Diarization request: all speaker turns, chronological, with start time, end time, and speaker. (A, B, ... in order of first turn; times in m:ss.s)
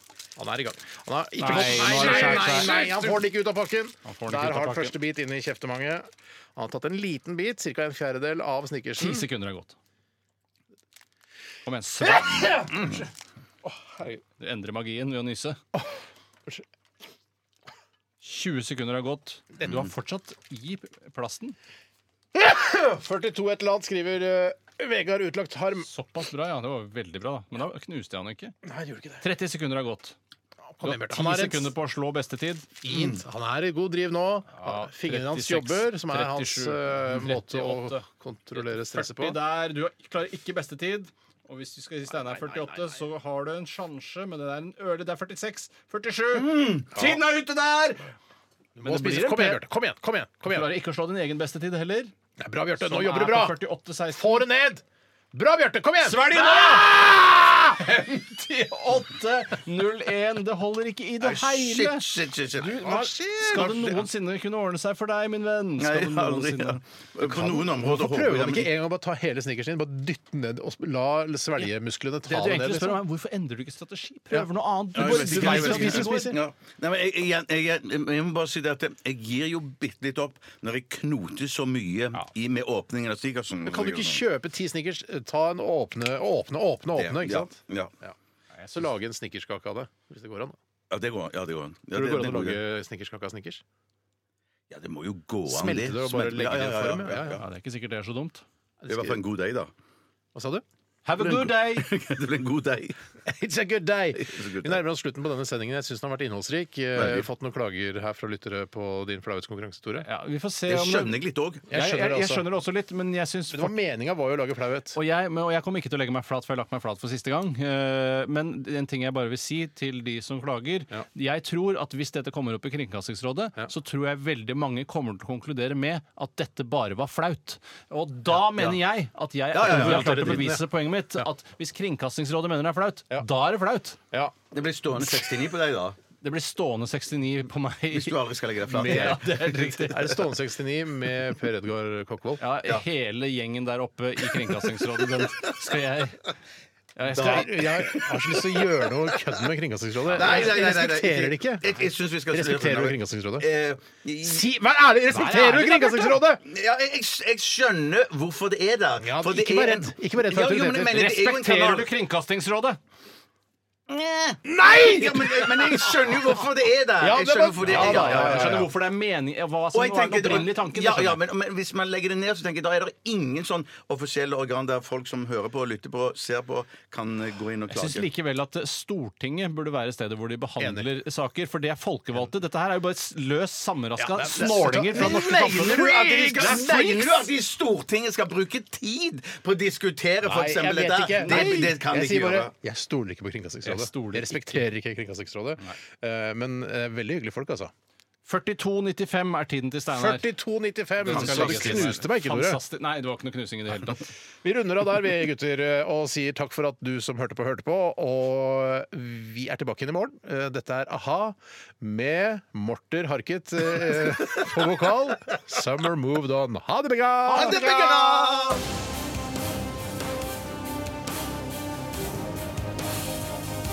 0:00.4-0:09.2 A
0:01.4-0:03.1 B
0:02.1-0:02.7 C
0:04.0-0:04.9 B
0:09.0-0:09.8 B
0:11.6-0:12.7 B
0:12.2-0:13.0 A
0:13.6-0:14.2 A
0:14.4-0:15.6 B
0:18.2-0:21.6 B
0:22.3-0:25.9 A
0:25.8-0:28.5 B
0:28.6-0:29.2 A
0:29.2-0:30.1 B
0:30.7-0:31.7 A
0:30.8-0:32.7 B
0:32.8-0:39.4 A
0:32.9-0:33.2 C
0:34.6-0:48.1 B
0:46.3-0:46.9 C
0:46.9-0:47.2 A
0:48.8-0:50.7 A
0:48.8-0:49.6 B
0:50.5-0:52.1 B
0:52.4-0:53.6 A
0:52.8-0:54.4 B
0:54.2-0:58.0 A
0:56.0-0:56.9 B
0:57.8-1:06.8 B
1:01.2-1:04.0 C
1:03.5-1:03.8 A
1:05.8-1:08.7 C
1:07.2-1:13.0 A
1:12.2-1:16.4 B
1:14.3-1:16.4 A
1:14.9-1:24.2 C
1:23.6-1:28.2 A
1:26.9-1:27.9 C
1:28.7-1:30.6 A
1:30.9-1:32.6 C
1:31.9-1:33.6 A
1:34.7-1:37.4 C
1:35.5-1:37.4 A
1:37.4-1:38.4 B
1:38.8-1:39.2 A
1:38.9-1:39.7 C
1:40.3-1:40.6 A
1:41.0-1:41.9 B
1:41.3-1:43.0 C
1:43.2-1:50.0 A
1:44.1-1:44.8 C
1:46.9-1:47.2 C
1:50.0-1:51.1 B
1:50.7-1:51.6 C
1:51.7-1:52.4 A
1:51.7-1:53.7 B
1:53.5-1:55.0 A
1:54.9-2:14.0 B
2:09.5-2:10.5 C
2:09.6-2:10.6 A
2:14.5-2:16.0 C
2:15.0-2:15.3 A
2:16.2-2:18.2 B
2:17.9-2:19.4 C
2:18.7-2:22.4 A
2:18.8-2:20.1 B
2:22.4-2:26.3 B
2:27.0-2:27.5 B
2:27.0-2:33.5 A
2:27.1-2:29.2 C
2:30.1-2:34.5 C
2:34.2-2:36.4 A
2:35.1-2:36.1 B
2:36.4-2:41.9 C
2:39.0-2:41.0 A
2:40.8-2:42.8 B
2:43.9-2:48.7 C
2:44.4-2:46.3 A
2:47.0-2:48.7 A
2:47.7-2:51.2 B
2:49.7-2:58.0 C
2:57.7-3:07.2 B
3:00.6-3:00.9 A
3:04.0-3:07.1 A
3:04.9-3:12.5 C
3:10.2-3:17.7 A
3:11.3-3:11.5 B
3:13.6-3:14.6 B
3:18.2-3:20.2 B
3:19.9-3:22.6 A
3:21.0-3:24.1 B
3:21.0-3:21.9 C
3:24.4-3:38.3 A
3:37.3-3:38.6 C